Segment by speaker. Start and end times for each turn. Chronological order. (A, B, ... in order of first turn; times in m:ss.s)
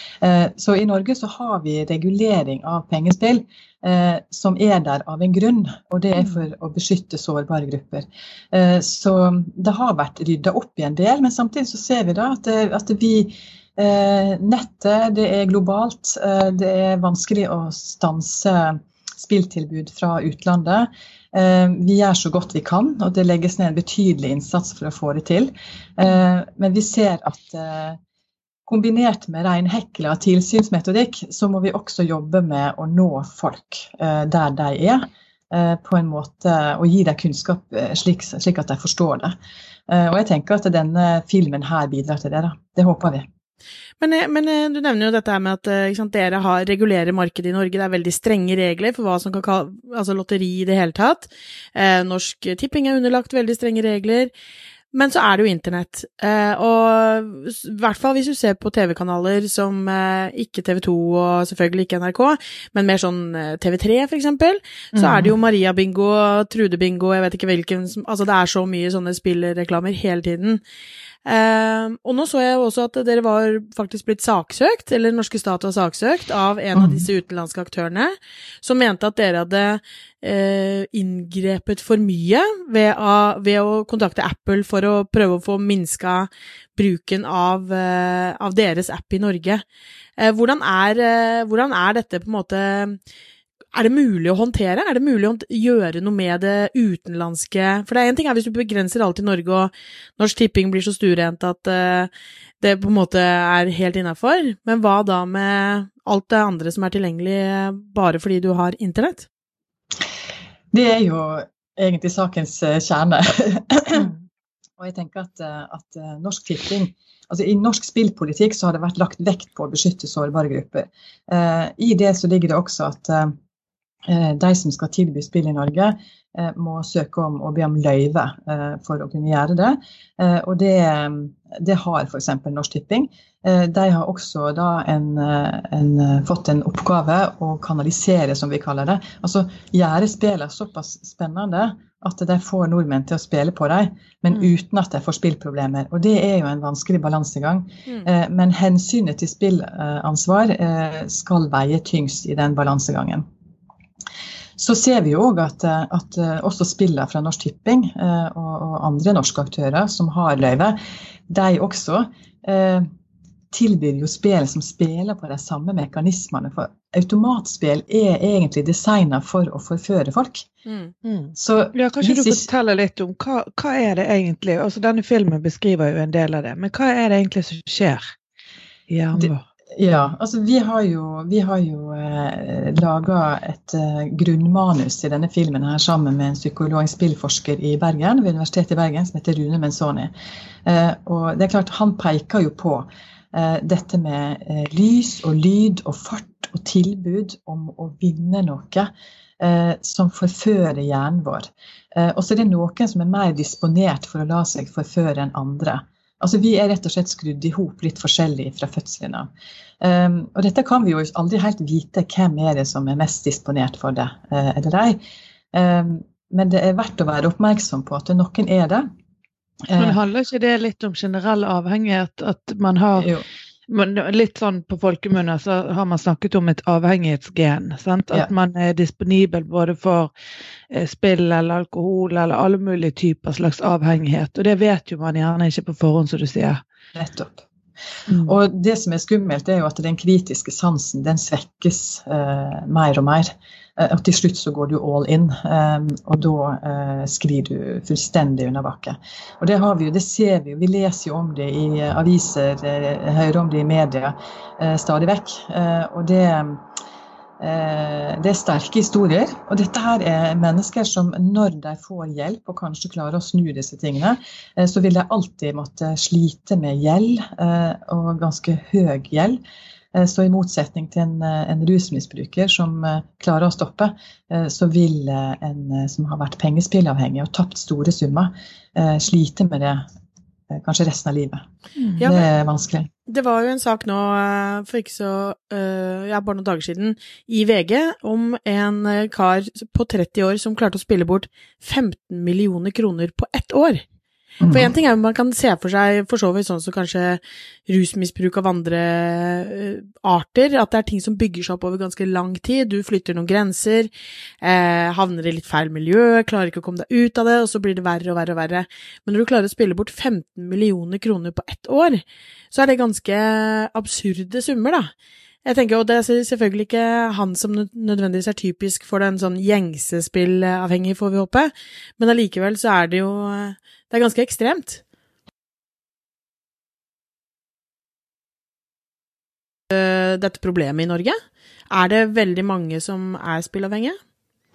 0:00.2-0:28.0 A
0:28.7-0:39.3 A
0:39.9-0:43.3 A
0:44.0-0:54.3 B
0:54.9-1:10.6 B
1:05.0-1:05.3 C
1:11.2-1:29.6 B
1:30.2-1:33.0 B
1:33.7-1:42.1 B
1:42.6-1:49.3 B
1:50.7-1:54.1 A
1:54.8-2:03.4 A
2:04.1-2:33.2 A
2:34.6-2:42.9 A
2:43.5-2:50.5 A
2:50.6-2:50.9 B
2:51.0-2:58.1 C
2:51.3-2:52.5 A
2:58.9-2:59.4 C
2:59.1-3:10.1 A
3:10.6-3:29.3 A
3:29.8-3:35.0 A
3:35.5-3:38.9 A
3:39.7-3:40.0 A
3:39.8-3:43.1 C
3:43.0-3:43.2 A
3:43.7-3:50.1 C
3:50.7-3:56.6 C
3:56.9-3:57.4 A
3:58.1-3:58.3 C
3:58.2-4:16.6 A
4:17.4-4:29.4 A
4:29.9-4:39.8 A
4:40.5-4:41.4 A
4:42.0-4:42.2 B
4:42.0-4:42.9 A
4:43.1-4:53.8 B
4:54.4-4:54.7 A
4:54.5-5:03.9 B
5:04.4-5:14.9 B
5:15.4-5:24.8 B
5:29.7-5:31.2 B
5:31.7-5:34.0 B